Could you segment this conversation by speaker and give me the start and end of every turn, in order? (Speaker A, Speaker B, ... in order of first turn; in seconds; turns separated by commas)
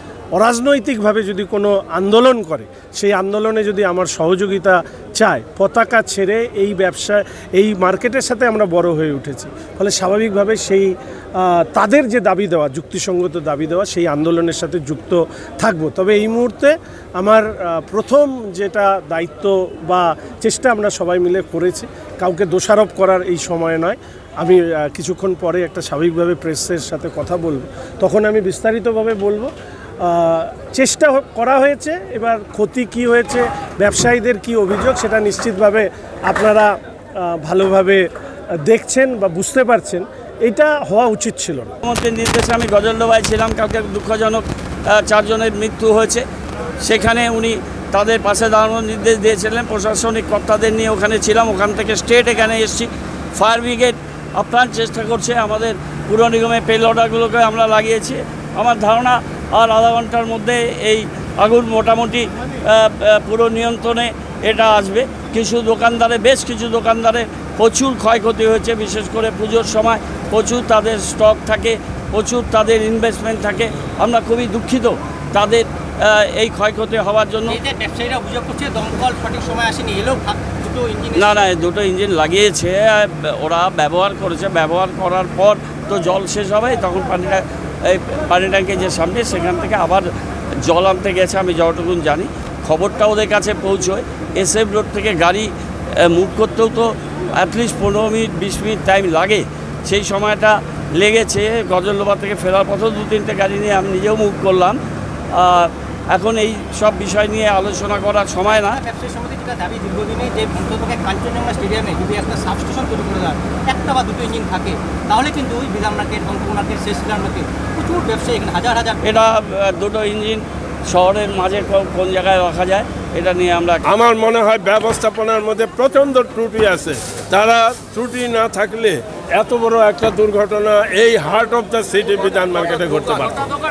Speaker A: 0.3-29.5, Speaker A: 30.0-38.0, Speaker A: 38.7-41.8, Speaker B: 41.8-44.4, Speaker B: 45.0-46.2, Speaker B: 46.8-77.5, Speaker C: 77.5-81.5, Speaker B: 81.2-90.1, Speaker B: 90.7-95.5, Speaker B: 96.1-104.8, Speaker B: 105.4-108.8, Speaker C: 108.5-119.0, Speaker B: 119.0-123.8, Speaker D: 123.9-133.5